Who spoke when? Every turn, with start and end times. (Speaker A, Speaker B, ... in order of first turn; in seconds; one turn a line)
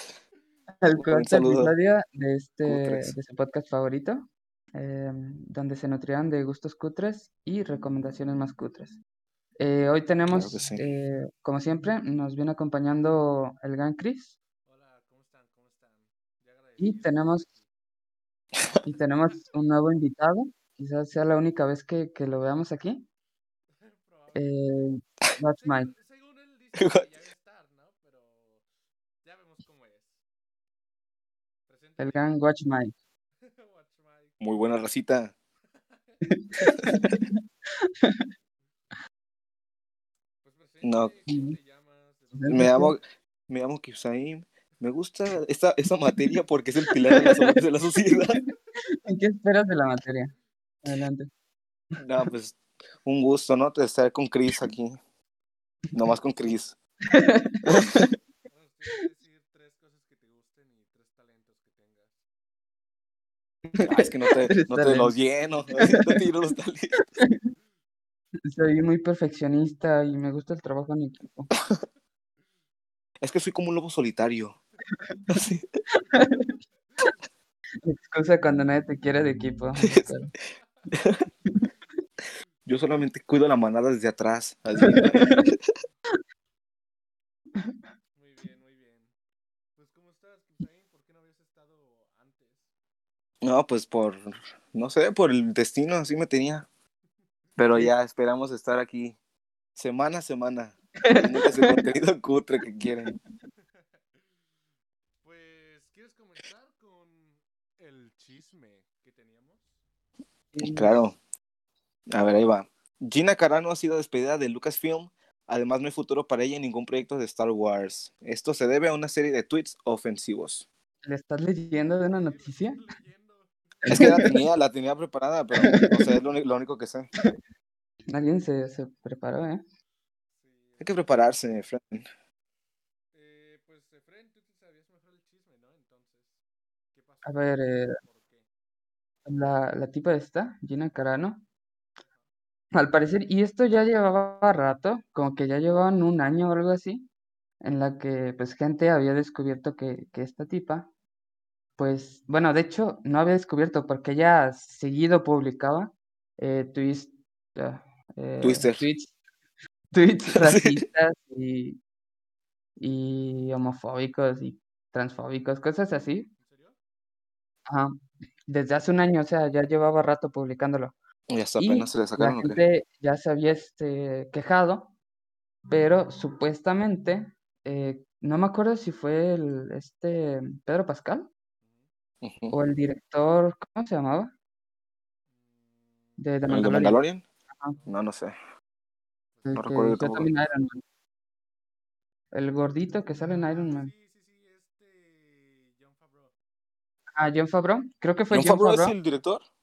Speaker A: 0.8-9.0
Speaker B: 0.9-1.7
Speaker B: 2.7-3.1
Speaker A: 9.6-14.4
Speaker B: 10.3-10.9
Speaker C: 14.7-17.6
Speaker A: 16.8-17.5
Speaker A: 18.8-23.1
Speaker C: 23.8-24.4
Speaker A: 24.3-25.9
Speaker C: 25.6-28.6
Speaker B: 26.8-27.1
Speaker C: 29.2-30.2
Speaker C: 31.7-32.2
Speaker A: 32.0-32.9
Speaker C: 33.4-34.6
Speaker B: 34.4-35.3
Speaker C: 35.9-36.2
Speaker A: 36.2-38.3
Speaker B: 36.8-37.2
Speaker C: 40.4-42.6
Speaker B: 40.8-41.1
Speaker A: 41.3-41.6
Speaker A: 42.3-43.0
Speaker B: 42.5-48.4
Speaker A: 47.0-50.3
Speaker A: 50.9-51.3
Speaker A: 51.9-52.3
Speaker B: 52.0-55.0
Speaker B: 55.9-56.8
Speaker A: 57.1-58.1
Speaker B: 57.6-58.1
Speaker C: 58.5-62.1
Speaker A: 63.7-65.2
Speaker B: 63.8-67.1
Speaker A: 65.8-66.0
Speaker A: 68.5-71.5
Speaker B: 73.2-74.6
Speaker A: 75.0-75.3
Speaker B: 75.3-75.8
Speaker A: 76.0-77.1
Speaker A: 77.8-80.3
Speaker B: 79.9-80.1
Speaker B: 80.9-81.2
Speaker B: 82.7-85.6
Speaker A: 84.8-85.5
Speaker A: 87.6-87.8
Speaker C: 88.2-89.1
Speaker C: 89.8-92.7
Speaker B: 93.4-96.7
Speaker B: 97.6-99.2
Speaker B: 99.8-103.1
Speaker A: 101.0-101.8
Speaker A: 102.9-103.2
Speaker C: 105.2-109.6
Speaker A: 110.5-111.0
Speaker B: 110.6-111.2
Speaker B: 112.1-120.7
Speaker A: 121.0-122.9
Speaker C: 122.0-123.5
Speaker A: 123.9-124.4
Speaker B: 123.9-127.1
Speaker A: 125.6-125.9
Speaker A: 128.1-129.6
Speaker C: 130.4-130.9
Speaker B: 130.8-132.1
Speaker C: 133.1-136.3
Speaker C: 137.0-138.4
Speaker A: 137.2-138.0
Speaker A: 139.3-141.4
Speaker A: 142.7-147.1
Speaker A: 147.6-150.9
Speaker A: 151.8-159.1
Speaker B: 158.4-158.8
Speaker A: 159.9-161.8
Speaker B: 160.3-160.8
Speaker A: 162.8-166.3
Speaker C: 166.4-166.7
Speaker A: 167.7-170.9
Speaker B: 171.3-172.6
Speaker A: 171.6-174.9
Speaker A: 175.7-181.3
Speaker B: 182.2-182.6
Speaker A: 182.5-184.3
Speaker A: 186.2-187.0
Speaker B: 186.5-187.2
Speaker B: 187.9-188.4
Speaker A: 189.4-190.8
Speaker B: 189.6-190.3
Speaker A: 192.3-193.9
Speaker C: 193.5-196.3
Speaker A: 197.2-198.9
Speaker B: 198.3-199.4